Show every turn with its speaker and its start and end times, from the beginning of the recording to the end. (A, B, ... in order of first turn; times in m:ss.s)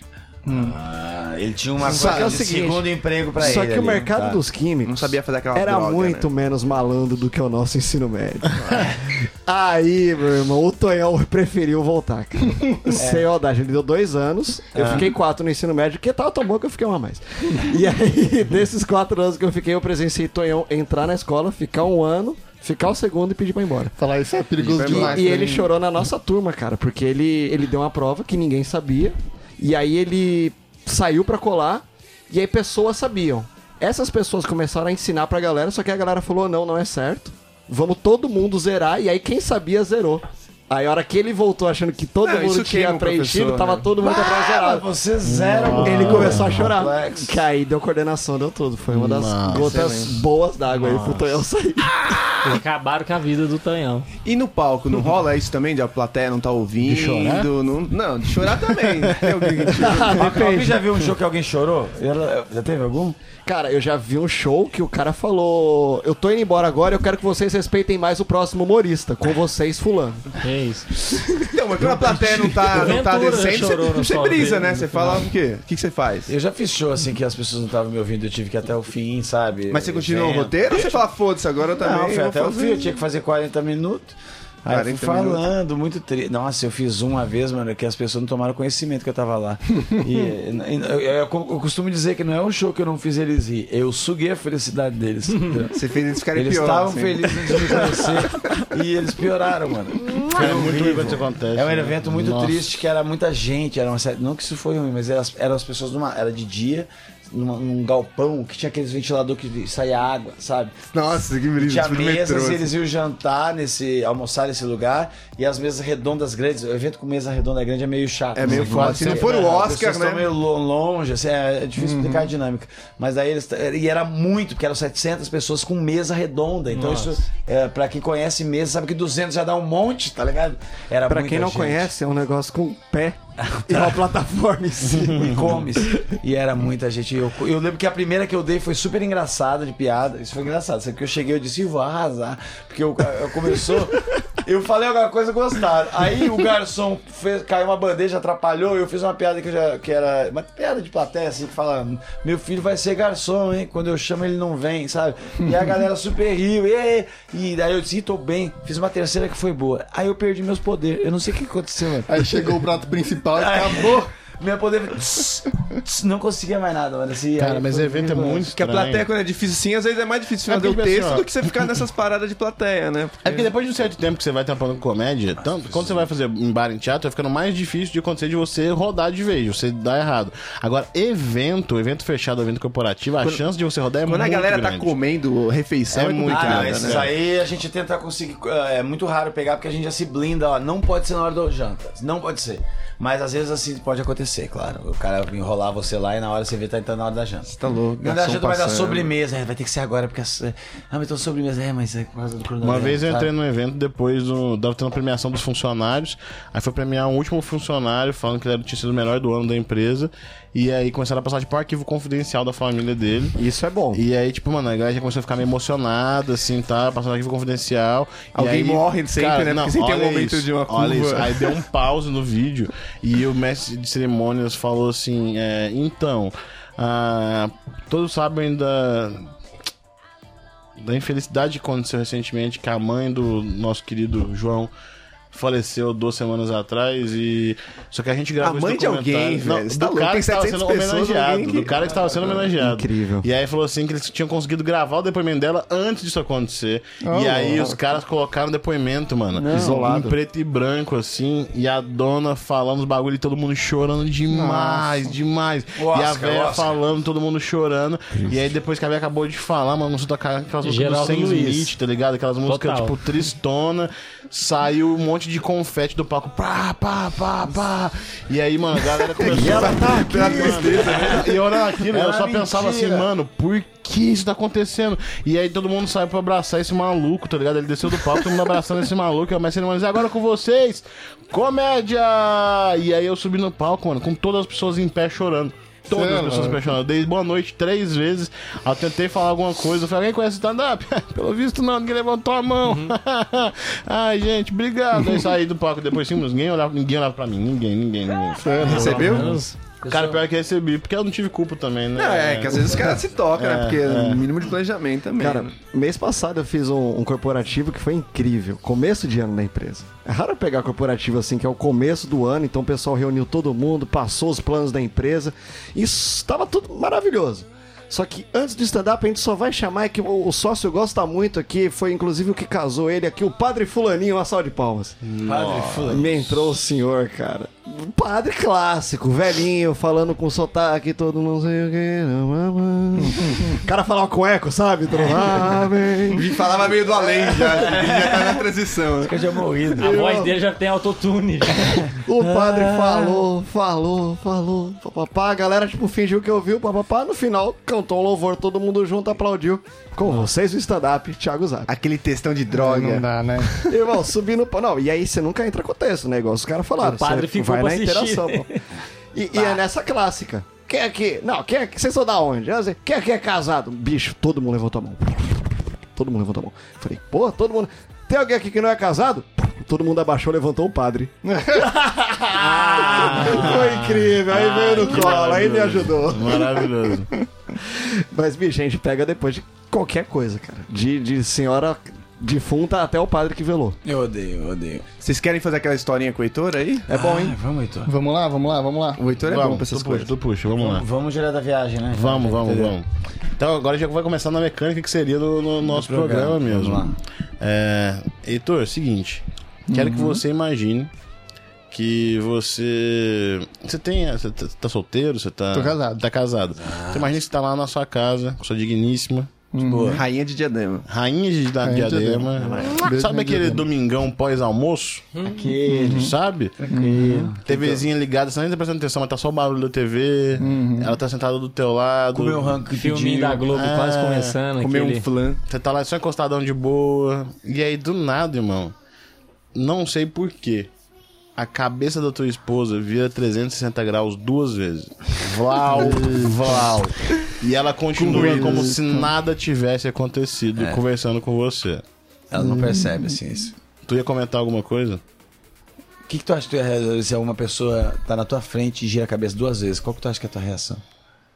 0:00.4-0:00.8 A
0:00.5-0:04.4 B
0:01.8-0:23.9 C
0:02.0-0:02.4 D
0:04.8-0:06.3 D
0:08.6-0:08.9 D
0:13.0-0:13.3 B
0:14.7-0:15.1 B
0:24.0-0:25.7 A
0:24.6-0:25.6 D
0:24.8-0:44.9 C
0:42.2-0:43.9 D
0:44.0-0:47.4 B
0:45.2-0:46.8 E
0:45.7-0:52.6 C
0:48.9-0:49.9 E
0:49.6-0:50.2 D
0:50.9-0:51.2 E
0:52.4-0:54.1 F
0:54.2-1:00.3 D
0:56.8-0:57.5 E
0:58.4-0:59.8 E
0:59.8-1:00.8 C
1:00.1-1:03.2 B
1:03.4-1:10.4 C
1:10.4-1:10.9 F
1:11.1-1:11.4 C
1:11.4-1:16.3 D
1:12.6-1:15.3 F
1:16.3-1:21.0 B
1:19.7-1:22.9 D
1:21.8-1:35.7 B
1:24.7-1:25.4 D
1:35.7-1:37.9 D
1:36.3-1:50.7 B
1:40.3-1:42.7 E
1:50.9-1:52.7 D
1:51.6-2:11.9 B
1:58.4-2:00.3 D
1:58.4-1:59.4 E
2:01.8-2:02.3 A
2:11.1-2:15.4 C
2:13.5-2:13.9 B
2:14.8-2:15.6 E
2:15.2-2:42.6 B
2:42.1-2:44.1 A
2:43.3-2:48.5 B
2:47.4-2:49.1 E
2:48.6-2:53.5 D
2:50.5-2:51.6 E
2:53.2-3:05.0 E
3:04.0-3:07.1 D
3:05.9-3:07.1 E
3:06.2-3:23.3 B
3:17.5-3:19.1 D
3:22.6-3:33.4 E
3:33.4-3:34.0 C
3:33.9-3:49.3 E
3:38.3-3:41.5 D
3:50.8-3:54.7 E
3:55.3-4:59.3 E
3:58.4-4:01.8 D
4:02.5-4:03.3 C
4:07.0-4:07.8 A
4:09.4-4:10.2 C
4:14.3-4:15.0 A
4:15.8-4:16.7 B
4:20.6-4:21.7 F
4:22.5-4:22.9 F
4:29.2-4:31.4 D
4:29.2-4:30.7 C
4:30.8-4:31.3 B
4:31.9-4:33.1 B
4:45.9-4:46.6 A
4:52.7-4:52.9 F
4:58.4-4:59.3 A
4:58.6-4:59.3 D
4:58.6-4:59.5 F
4:59.8-5:04.3 E
4:59.9-5:00.1 B
5:01.9-5:05.5 D
5:05.2-5:25.0 C
5:25.0-5:26.4 E
5:25.2-5:26.2 B
5:25.9-5:36.6 C
5:36.1-5:39.1 D
5:37.5-5:38.4 B
5:39.0-5:40.0 B
5:39.8-5:42.9 F
5:39.8-5:40.4 C
5:42.0-5:51.7 C
5:51.7-5:53.6 D
5:52.5-5:53.6 A
5:53.6-5:58.5 C
5:56.8-5:58.6 F
5:59.1-6:16.6 C
5:59.3-5:59.6 B
6:11.3-6:11.6 A
6:12.5-6:17.1 E
6:12.8-6:13.5 B
6:17.5-6:23.8 C
6:23.8-6:24.8 B
6:25.0-6:27.3 D
6:26.9-6:27.9 B
6:27.8-6:29.5 A
6:29.0-6:30.1 D
6:29.3-6:30.8 E
6:30.5-6:32.7 B
6:31.9-6:32.8 E
6:33.4-6:40.9 E
6:35.6-6:37.0 B
6:39.7-6:40.2 A
6:41.7-6:49.3 E
6:45.5-6:46.0 A
6:46.6-6:47.1 B
6:49.5-6:50.0 A
6:49.6-6:50.0 B
6:49.9-6:50.8 D
6:50.9-6:55.0 E
6:51.6-6:53.6 A
6:52.4-6:52.7 C
6:55.2-6:55.5 F
6:55.2-6:57.8 B
6:55.7-6:56.1 A
6:55.8-6:56.6 E
6:56.7-6:57.3 A
6:57.4-7:02.6 E
7:00.4-7:01.0 A
7:02.1-7:03.5 B
7:02.7-7:05.0 F
7:03.5-7:04.4 E
7:04.6-7:05.4 D
7:05.5-7:08.7 E
7:09.5-7:10.7 E
7:11.4-7:21.8 E
7:15.6-7:16.6 A
7:18.0-7:19.1 A
7:22.3-7:23.5 B
7:22.4-7:23.2 A
7:23.8-7:25.0 E
7:26.1-7:30.8 B